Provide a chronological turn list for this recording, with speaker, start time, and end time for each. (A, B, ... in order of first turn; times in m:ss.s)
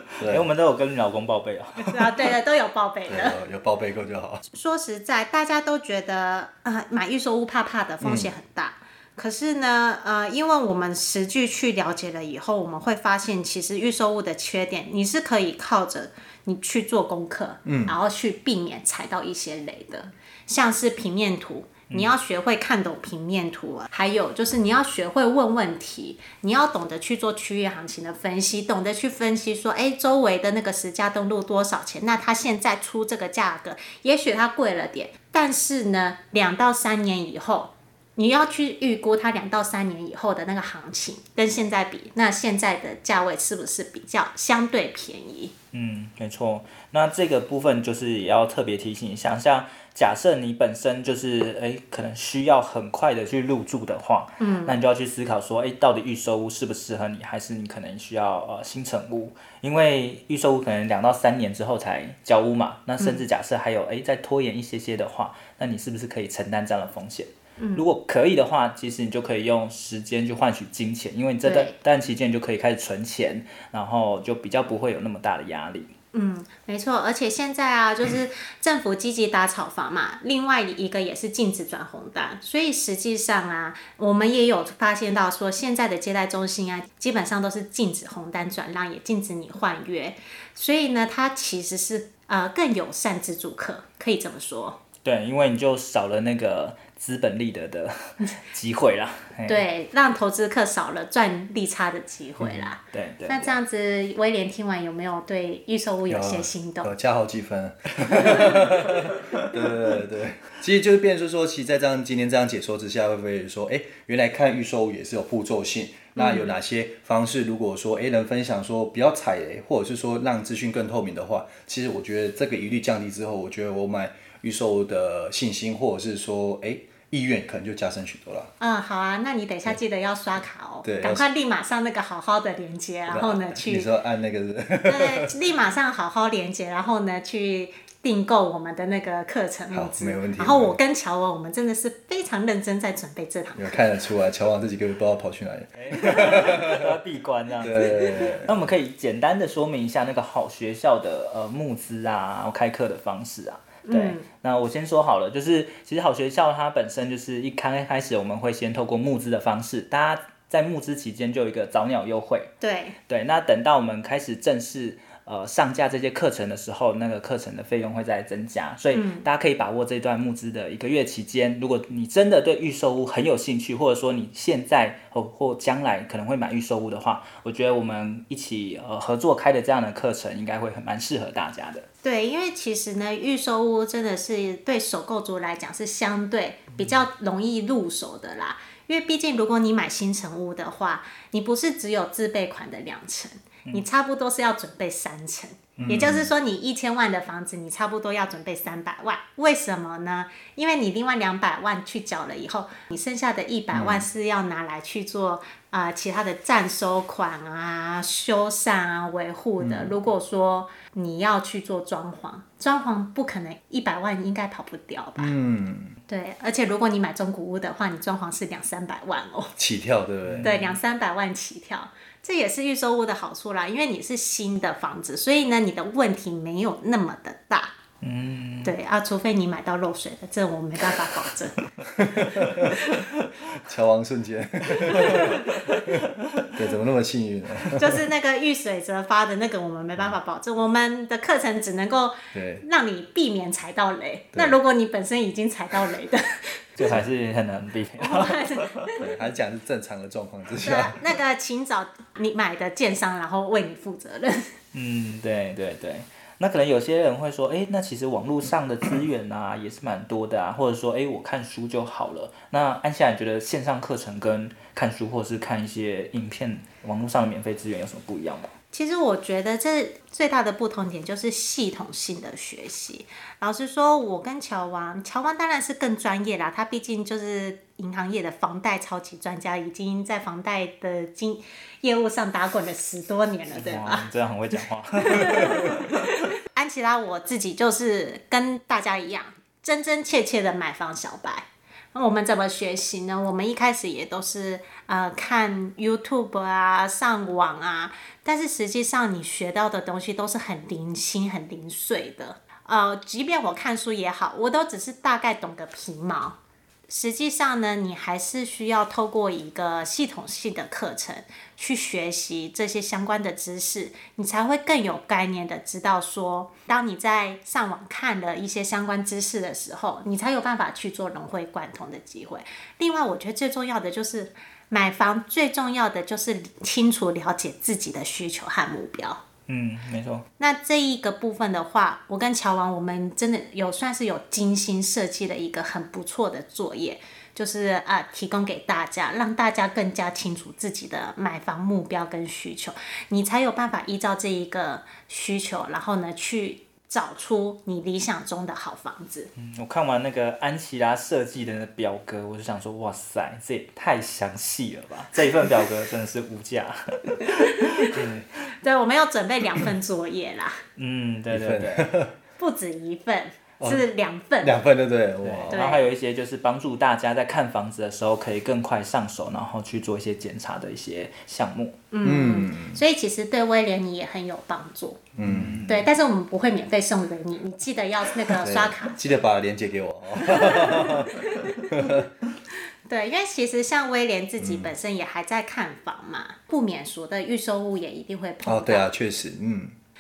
0:00.2-0:00.4 A
0:00.2-0:02.2 B
0:01.8-0:03.4 C
0:03.1-0:04.4 A
0:04.5-0:45.5 C
0:08.0-0:08.3 A
0:17.6-0:17.9 A
0:45.7-1:15.9 B
0:54.4-0:54.7 C
1:07.6-1:07.8 C
1:11.4-1:11.7 C
1:16.1-1:34.8 C
1:35.0-1:39.6 B
1:39.4-1:46.9 C
1:42.4-1:42.7 A
1:42.9-1:43.5 B
1:46.1-2:08.5 A
1:56.2-1:56.5 C
2:08.6-2:13.9 C
2:10.8-2:11.2 A
2:13.1-2:15.3 A
2:14.8-2:23.8 C
2:19.7-2:20.8 A
2:23.6-2:26.9 A
2:25.8-2:42.5 B
2:27.6-2:28.7 A
2:33.8-2:34.2 C
2:42.6-2:43.0 C
2:43.1-3:01.8 B
2:48.9-2:49.2 C
3:02.0-3:35.3 C
3:15.8-3:16.3 A
3:23.7-3:24.0 A
3:29.6-3:29.9 A
3:35.2-3:36.0 A
3:36.1-3:39.5 C
3:39.6-3:40.6 A
3:40.2-3:40.7 B
3:40.4-3:47.8 C
3:48.0-3:48.7 B
3:48.6-3:51.6 C
3:51.9-3:52.8 A
3:52.1-3:53.0 C
3:52.7-3:53.0 B
3:53.6-3:58.0 A
3:54.8-3:55.8 B
3:54.9-3:55.5 C
3:57.7-4:06.6 C
4:02.3-4:02.6 A
4:06.8-4:08.9 B
4:08.0-4:09.0 C
4:09.0-4:11.0 A
4:10.6-4:14.5 C
4:14.7-4:28.5 B
4:28.7-4:44.1 C
4:43.5-4:46.1 B
4:45.0-5:06.4 C
5:06.9-5:29.2 C
5:29.5-5:30.2 B
5:30.4-5:49.3 C
5:49.4-5:58.1 B
5:57.3-5:57.9 C
5:57.9-5:58.2 A
5:58.6-6:00.6 C
6:00.8-6:01.9 B
6:01.3-6:02.1 A
6:02.4-6:04.6 C
6:03.6-6:03.8 A
6:04.4-6:05.6 A
6:05.2-6:11.8 B
6:05.5-6:05.9 C
6:11.9-6:15.0 C
6:12.0-6:12.8 A
6:15.2-6:15.6 A
6:15.2-6:15.9 B
6:15.7-6:19.0 C
6:18.3-6:22.1 A
6:20.2-6:22.0 C
6:22.9-6:28.9 C
6:24.4-6:24.7 A
6:28.4-6:29.7 A